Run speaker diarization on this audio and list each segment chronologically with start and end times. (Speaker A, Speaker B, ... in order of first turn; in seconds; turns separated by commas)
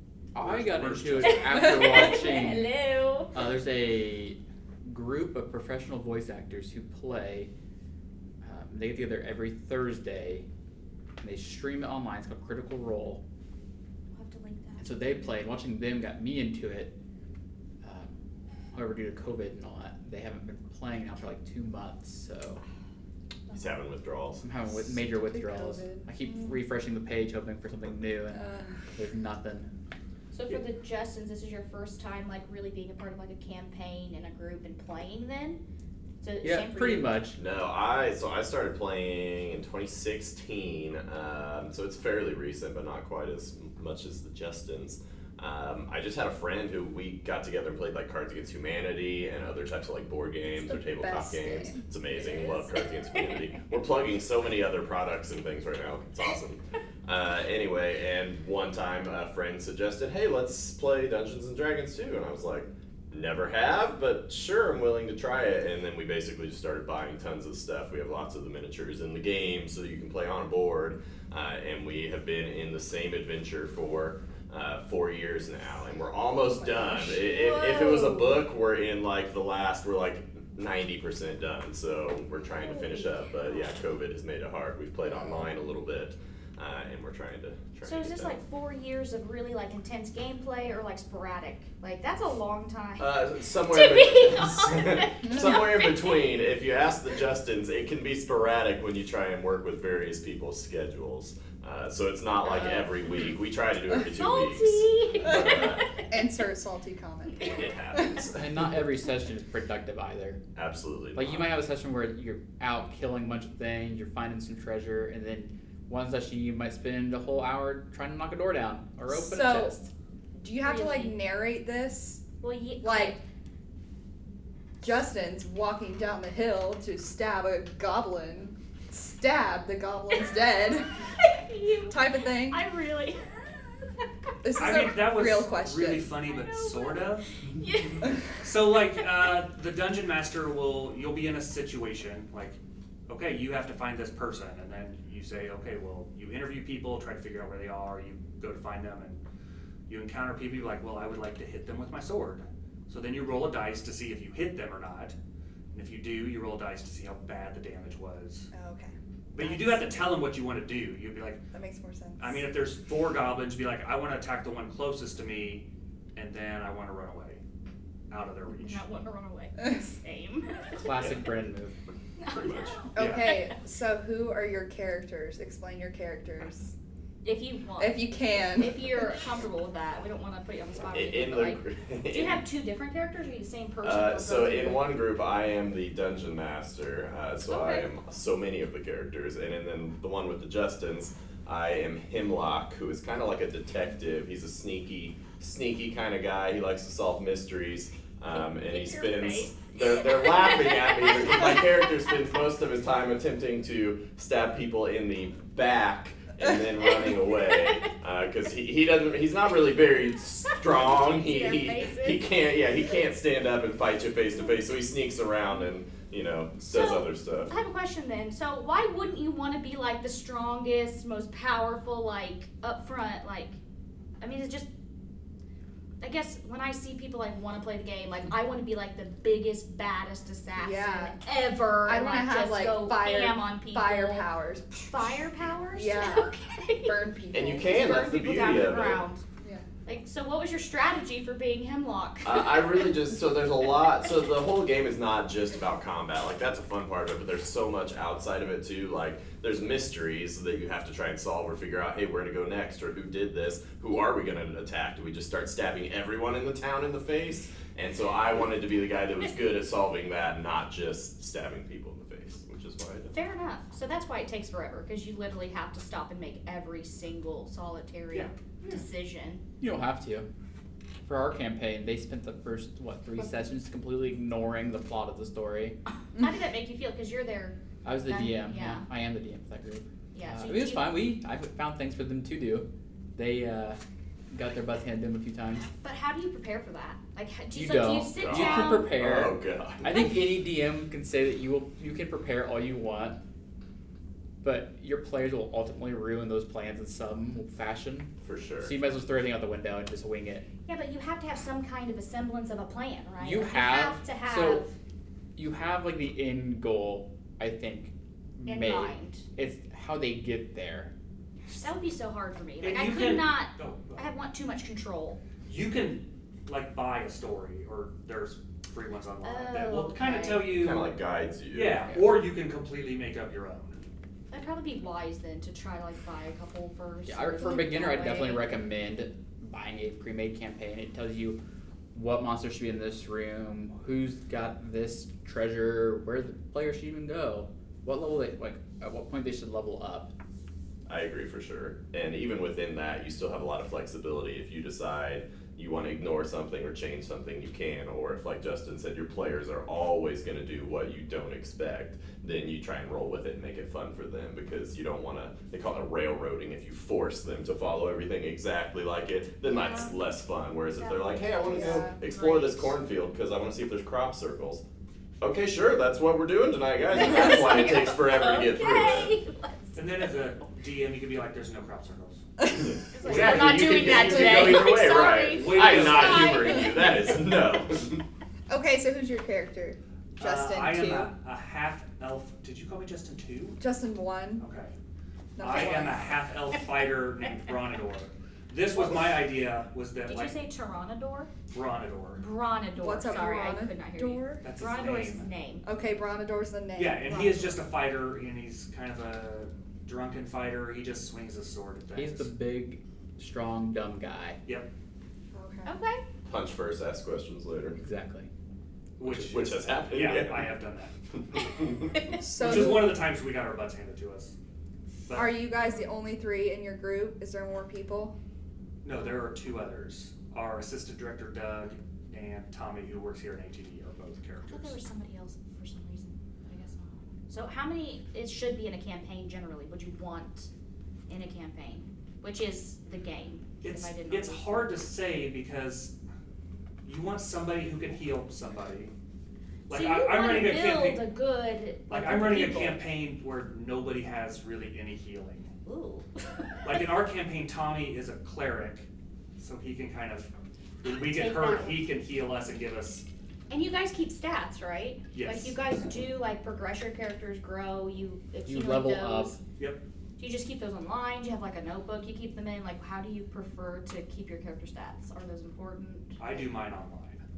Speaker A: 0.3-2.8, Speaker B: 0.4-1.9, Speaker C: 1.2-3.4, Speaker A: 3.3-7.5, Speaker A: 8.4-10.5, Speaker A: 11.2-13.2, Speaker C: 14.1-15.3, Speaker A: 14.8-16.9, Speaker A: 17.8-18.2, Speaker A: 18.7-22.6, Speaker D: 23.5-24.4, Speaker A: 24.4-29.7, Speaker E: 24.7-26.5, Speaker E: 28.3-28.8, Speaker C: 30.3-35.6, Speaker C: 36.2-37.2, Speaker A: 36.4-37.4, Speaker D: 37.4-88.4, Speaker E: 50.5-51.9, Speaker C: 52.2-53.4, Speaker E: 76.5-77.0, Speaker C: 77.0-78.4, Speaker C: 82.5-83.6, Speaker C: 87.8-96.2, Speaker D: 93.0-105.9, Speaker C: 102.5-103.2, Speaker C: 104.1-106.1, Speaker E: 106.1-108.2, Speaker D: 107.4-108.4, Speaker A: 108.3-110.4, Speaker D: 110.5-111.5, Speaker A: 111.2-119.9, Speaker E: 119.1-119.8, Speaker E: 120.3-123.2, Speaker C: 120.6-121.2, Speaker C: 122.4-123.2, Speaker E: 124.8-131.0, Speaker C: 131.2-134.9, Speaker E: 131.9-132.7, Speaker E: 134.4-136.2, Speaker B: 134.6-137.3, Speaker C: 136.2-138.2, Speaker B: 138.4-149.2, Speaker B: 149.9-155.2, Speaker B: 155.7-158.5, Speaker E: 158.5-159.9, Speaker B: 159.3-161.5, Speaker E: 161.5-162.4, Speaker B: 162.2-167.4, Speaker B: 168.1-168.9, Speaker C: 168.5-170.9, Speaker A: 170.7-171.7, Speaker C: 172.2-173.6, Speaker D: 172.3-172.8, Speaker E: 172.9-176.7, Speaker B: 173.0-173.4, Speaker C: 177.2-184.9, Speaker E: 177.8-179.0, Speaker D: 180.9-182.4, Speaker D: 183.8-217.5, Speaker C: 187.5-187.9, Speaker C: 198.3-201.9, Speaker C: 207.0-207.9, Speaker C: 210.5-212.3, Speaker C: 216.6-223.6, Speaker C: 224.2-224.7, Speaker C: 226.0-234.3, Speaker E: 230.6-231.2, Speaker E: 231.8-236.3, Speaker C: 234.9-237.1, Speaker E: 236.8-237.8, Speaker D: 237.3-239.0, Speaker C: 237.6-239.2, Speaker E: 239.4-239.7, Speaker C: 239.8-242.9, Speaker D: 242.2-263.1, Speaker C: 263.1-269.4, Speaker B: 268.1-268.8, Speaker A: 269.6-270.3, Speaker A: 271.1-275.8, Speaker C: 276.1-278.9, Speaker A: 277.8-283.8, Speaker C: 280.1-281.1, Speaker A: 284.3-285.7, Speaker C: 285.8-288.9, Speaker A: 287.5-293.2, Speaker D: 288.2-290.0, Speaker A: 294.4-300.5, Speaker D: 298.2-298.8, Speaker C: 300.7-304.7, Speaker A: 303.2-304.6, Speaker A: 305.4-310.9, Speaker C: 308.4-309.2, Speaker C: 311.5-315.2, Speaker B: 312.6-314.1, Speaker B: 315.4-320.9, Speaker C: 319.2-320.4, Speaker D: 320.5-321.9, Speaker B: 321.5-323.9, Speaker C: 324.3-328.5, Speaker A: 327.1-331.4, Speaker A: 331.9-340.1, Speaker D: 340.9-364.6, Speaker C: 359.5-360.0, Speaker C: 360.7-362.7, Speaker E: 361.4-362.0, Speaker D: 365.2-369.2, Speaker C: 366.9-369.8, Speaker B: 369.8-372.2, Speaker D: 372.6-378.0, Speaker C: 372.9-376.8, Speaker B: 373.0-376.6, Speaker E: 378.5-381.1, Speaker B: 380.2-383.6, Speaker E: 383.6-384.4, Speaker B: 384.4-384.7, Speaker E: 385.4-386.2, Speaker B: 385.4-390.4, Speaker E: 388.8-389.1, Speaker C: 390.1-391.3, Speaker B: 391.5-392.2, Speaker C: 392.2-395.6, Speaker E: 392.8-394.4, Speaker B: 394.4-395.3, Speaker E: 395.6-397.6, Speaker B: 396.8-402.3, Speaker A: 401.9-404.4, Speaker E: 405.3-405.7, Speaker C: 405.6-406.0, Speaker D: 406.3-407.8, Speaker A: 407.8-408.3, Speaker B: 409.0-410.9, Speaker D: 409.0-410.6, Speaker D: 411.3-412.0, Speaker E: 412.2-413.0, Speaker B: 412.3-414.4, Speaker B: 415.1-415.4, Speaker E: 415.1-418.1, Speaker B: 418.8-424.8, Speaker C: 424.5-430.5, Speaker C: 431.1-434.7, Speaker B: 433.6-435.9, Speaker B: 436.9-438.9, Speaker B: 439.7-441.1, Speaker C: 439.7-442.8, Speaker B: 441.9-445.5, Speaker C: 445.7-446.7, Speaker B: 446.6-450.3, Speaker B: 450.8-453.1, Speaker C: 450.9-451.9, Speaker C: 453.5-459.4, Speaker B: 455.1-455.6, Speaker A: 458.5-459.4, Speaker B: 459.6-459.8, Speaker C: 460.2-466.5, Speaker B: 466.2-467.2